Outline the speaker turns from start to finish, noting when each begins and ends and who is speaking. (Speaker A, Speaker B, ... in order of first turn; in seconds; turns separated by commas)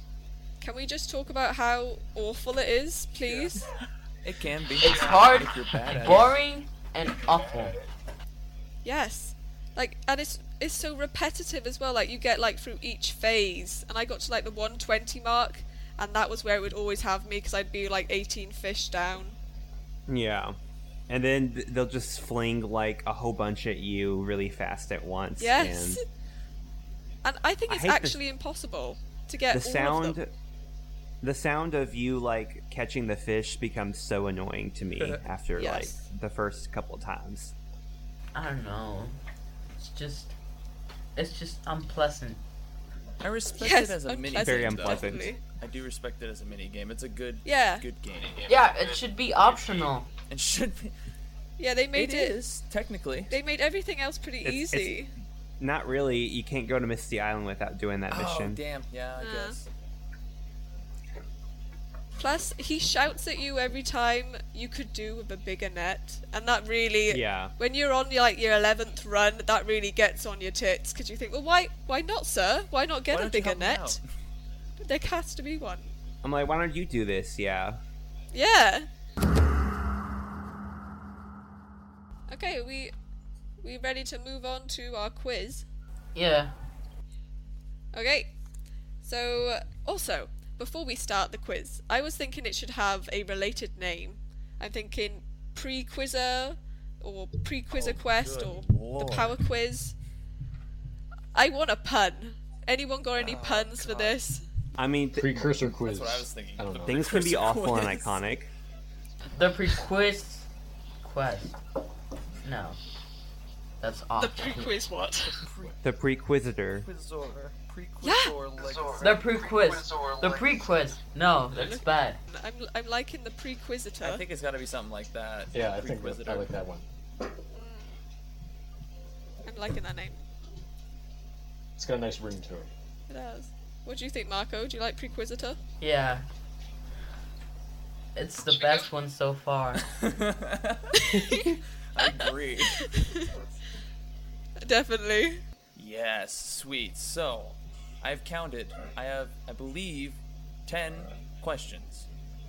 Speaker A: 0.6-3.7, Speaker B: 3.3-3.6, Speaker B: 4.2-6.3, Speaker C: 4.8-7.8, Speaker A: 8.8-19.4, Speaker D: 20.1-20.6, Speaker D: 21.1-26.0, Speaker A: 25.4-26.0, Speaker A: 27.2-30.2, Speaker D: 27.7-28.2, Speaker D: 29.5-30.3, Speaker D: 31.2-37.5, Speaker A: 35.6-36.0, Speaker C: 38.3-39.2, Speaker C: 39.8-40.3, Speaker C: 41.1-42.4, Speaker B: 43.2-48.5, Speaker A: 43.6-45.4, Speaker D: 44.4-45.3, Speaker A: 47.5-47.9, Speaker C: 48.5-50.1, Speaker B: 50.3-50.9, Speaker A: 51.6-52.4, Speaker B: 52.0-53.3, Speaker A: 53.3-55.1, Speaker D: 54.4-55.0, Speaker D: 55.6-58.6, Speaker B: 58.1-59.7, Speaker A: 59.2-59.6, Speaker A: 62.2-74.0, Speaker D: 67.1-67.5, Speaker B: 73.1-74.0, Speaker A: 74.8-75.9, Speaker D: 76.2-77.8, Speaker A: 78.3-78.9, Speaker A: 82.3-82.9, Speaker A: 83.6-85.7, Speaker C: 86.2-86.5, Speaker A: 87.9-88.3, Speaker A: 89.0-99.9, Speaker B: 97.7-99.4, Speaker A: 101.3-104.4, Speaker B: 103.2-104.2, Speaker D: 104.8-105.5, Speaker E: 105.1-107.3, Speaker B: 105.8-108.2, Speaker D: 106.8-108.5, Speaker C: 109.3-110.5, Speaker C: 111.0-111.6, Speaker C: 112.4-112.8, Speaker C: 113.8-114.7, Speaker A: 114.2-115.3, Speaker B: 115.3-115.8, Speaker D: 115.8-116.9, Speaker B: 116.8-119.2, Speaker A: 118.0-118.4, Speaker C: 119.0-122.2, Speaker A: 121.5-124.2, Speaker B: 124.0-126.5, Speaker E: 125.5-126.8, Speaker A: 127.5-127.9, Speaker A: 129.4-130.2, Speaker E: 131.8-132.7, Speaker A: 133.1-135.6, Speaker C: 135.8-136.3, Speaker C: 138.2-139.9, Speaker B: 139.8-141.0, Speaker A: 140.9-141.5, Speaker B: 141.9-142.9, Speaker A: 142.8-143.3, Speaker A: 144.6-145.4, Speaker B: 145.8-152.1